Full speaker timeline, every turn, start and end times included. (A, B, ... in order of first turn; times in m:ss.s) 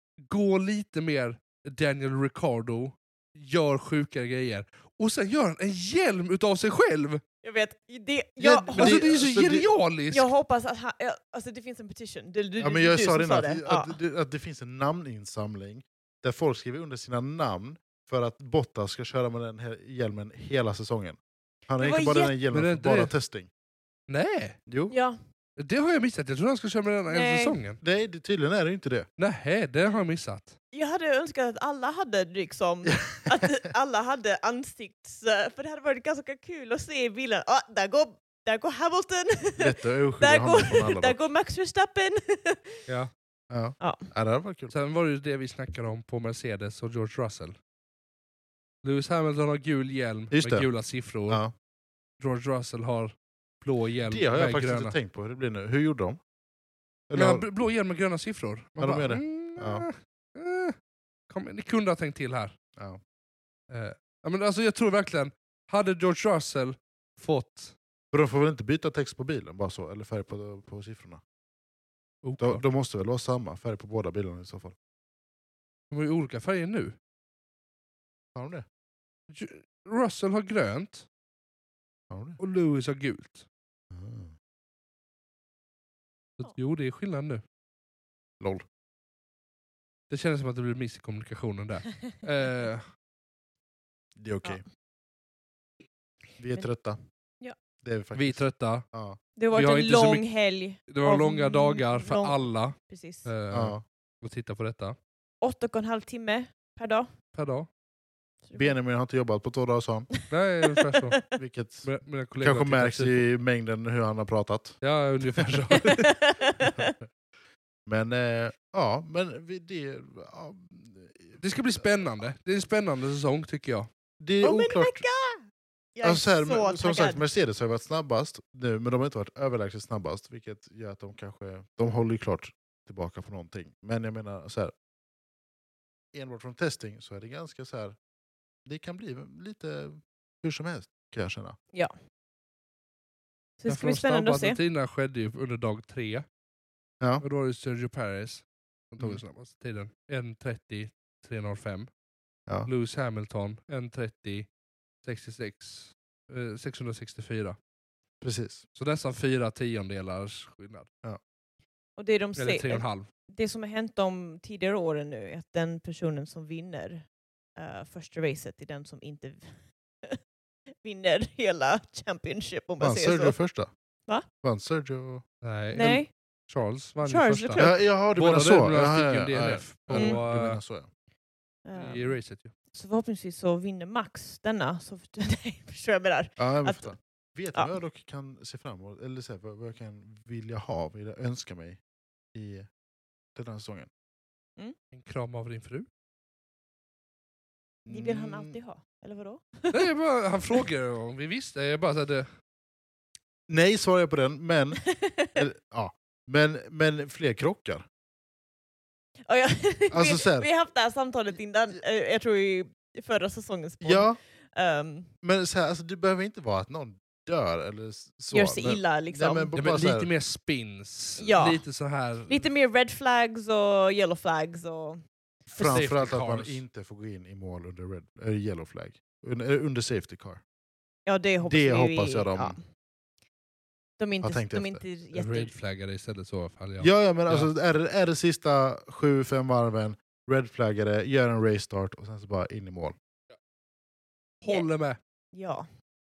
0:00.3-0:07.2 A
0:07.4-0:09.0 B
0:08.4-0:09.7 C
0:08.8-0:10.3 A
0:10.1-0:14.0 B
0:12.6-0:23.5 C
0:21.8-0:22.3 B
0:22.5-0:23.1 A
0:24.1-0:24.6 A
0:24.7-0:24.9 C
0:24.9-0:25.2 B
0:25.6-0:27.8 A
0:27.1-0:27.6 B
0:27.8-0:29.1 C
0:29.2-0:30.6 A
0:30.7-0:42.8 B
0:32.8-0:33.6 C
0:39.6-0:41.2 C
0:43.5-0:44.7 C
0:43.8-0:44.1 B
0:44.7-0:47.6 A
0:48.8-0:51.4 A
0:50.3-0:50.7 C
0:52.2-0:54.9 A
0:54.1-0:56.2 C
0:57.1-0:57.4 C
0:57.1-1:00.8 A
0:58.8-0:59.9 C
1:01.3-1:02.5 A
1:03.7-1:07.7 A
1:08.1-1:11.2 C
1:12.2-1:12.6 A
1:12.4-1:14.8 C
1:15.9-1:16.9 A
1:18.3-1:18.6 C
1:19.3-1:21.0 A
1:22.1-1:22.4 C
1:22.4-1:23.4 A
1:23.9-1:24.3 C
1:26.4-1:27.4 A
1:28.4-1:28.6 C
1:30.1-1:32.8 A
1:34.2-1:34.6 C
1:36.4-1:37.0 C
1:37.8-1:39.2 C
1:38.1-1:38.8 A
1:39.4-1:43.3 B
1:39.5-1:45.0 A
1:43.5-1:43.8 C
1:45.4-1:47.1 B
1:47.3-1:47.7 A
1:48.4-1:48.8 B
1:48.6-1:50.1 C
1:50.3-1:51.2 A
1:50.9-1:51.2 B
1:51.3-1:51.9 C
1:51.8-1:53.2 A
1:52.4-1:54.8 C
1:54.8-1:56.2 A
1:55.7-1:56.9 B
1:57.8-2:01.4 C
2:01.4-2:03.9 A
2:04.2-2:05.0 C
2:04.4-2:07.2 B
2:06.0-2:14.7 C
2:16.1-2:18.0 C
2:18.6-2:21.6 C
2:23.6-2:24.6 B
2:23.7-2:26.2 A
2:27.2-2:31.9 A
2:32.6-2:34.5 A
2:35.0-2:37.6 A
2:38.2-2:38.6 C
2:38.8-2:40.9 A
2:42.0-2:47.0 B
2:42.4-2:43.1 A
2:47.6-2:50.2 B
2:50.8-2:53.3 B
2:52.8-2:53.7 C
2:54.4-2:55.2 C
2:55.4-2:56.0 A
2:55.7-2:56.1 B
2:56.5-3:00.6 A
2:57.0-2:57.8 B
2:57.6-3:00.9 C
2:59.9-3:00.2 B
3:01.6-3:02.2 B
3:01.7-3:02.5 A
3:02.7-3:06.9 B
3:06.4-3:11.8 C
3:12.3-3:12.7 C
3:13.3-3:13.9 C
3:14.9-3:15.9 A
3:17.8-3:18.6 C
3:17.9-3:19.9 B
3:19.7-3:22.3 A
3:23.5-3:24.8 C
3:24.8-3:25.4 B
3:25.4-3:27.8 C
3:29.3-3:35.1 B
3:29.9-3:30.5 C
3:33.8-3:34.2 C
3:35.2-3:40.1 C
3:38.3-3:39.6 B
3:39.6-3:42.5 A
3:41.2-3:41.6 B
3:42.3-3:45.0 B
3:45.5-3:50.4 C
3:45.5-3:45.9 B
3:45.6-3:46.6 A
3:51.0-3:52.6 B
3:51.4-3:52.6 C
3:54.0-3:55.5 B
3:54.2-3:54.8 C
3:55.1-3:57.5 A
3:56.8-4:02.9 C
4:04.4-4:05.0 A
4:05.3-4:05.7 B